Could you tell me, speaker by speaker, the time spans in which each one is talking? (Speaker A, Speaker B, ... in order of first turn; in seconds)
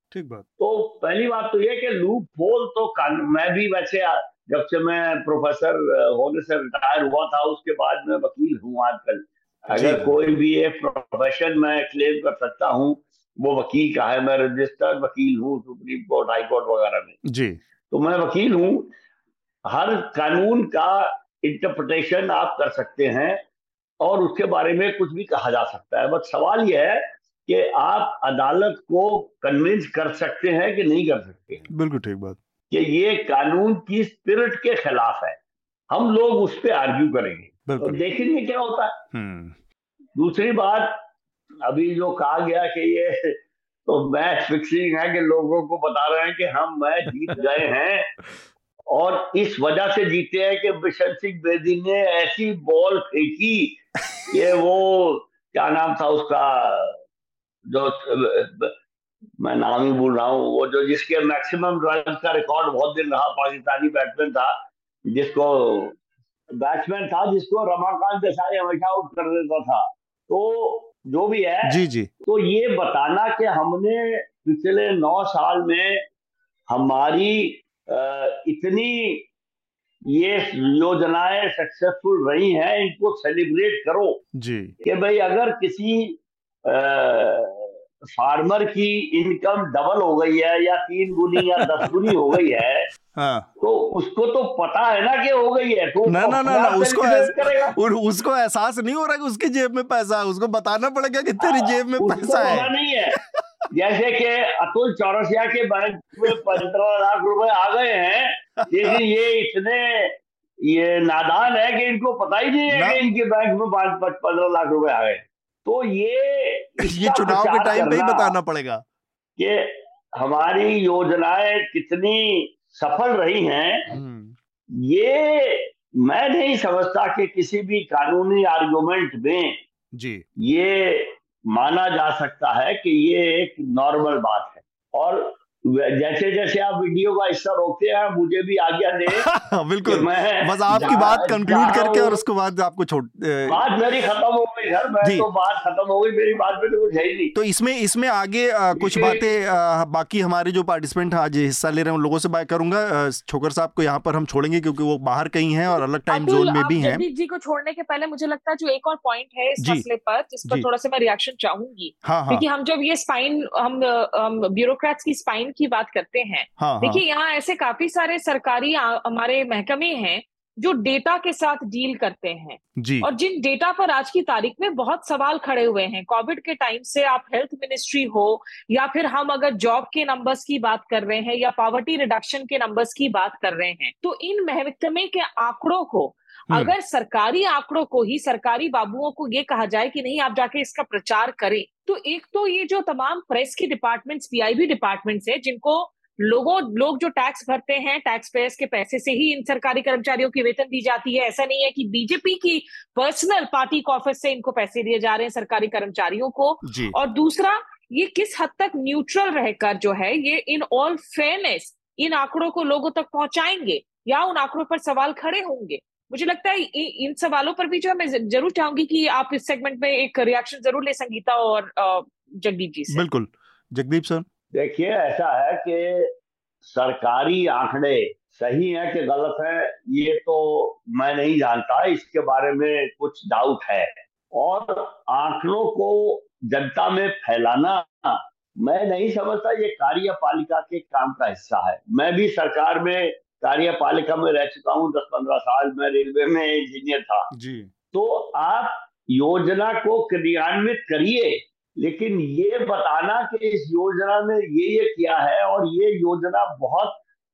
Speaker A: 0.1-0.5, 9.7-10.1, 17.3-17.6, 31.7-32.4, 37.7-38.0, 39.1-39.5, 71.6-72.1, 84.3-84.8, 93.2-93.5, 96.1-102.7, 106.3-106.6, 108.6-109.0, 112.7-113.0, 116.8-118.8, 123.9-124.4, 129.9-130.3, 139.1-143.7, 145.0-145.3, 147.3-157.1, 159.6-159.8, 162.1-162.4, 166.6-167.0, 172.8-173.1, 206.7-206.9, 222.9-224.3, 247.3-247.7
Speaker B: 0.6-17.2, 17.9-18.9, 19.7-23.4, 24.0-31.7, 32.7-35.4, 35.9-39.0, 40.2-41.0, 41.6-48.1, 48.9-57.0, 57.7-58.7, 59.4-64.5, 65.1-66.0, 66.5-76.0, 76.7-79.3, 80.1-84.2, 84.8-92.9, 93.6-97.8, 101.4-103.2, 103.7-118.3, 119.4-124.0, 124.8-129.6, 130.4-139.3, 139.9-142.2, 143.5-147.3, 148.8-149.2, 224.5-226.1, 226.6-247.3, 247.9-257.0
Speaker C: 156.1-223.1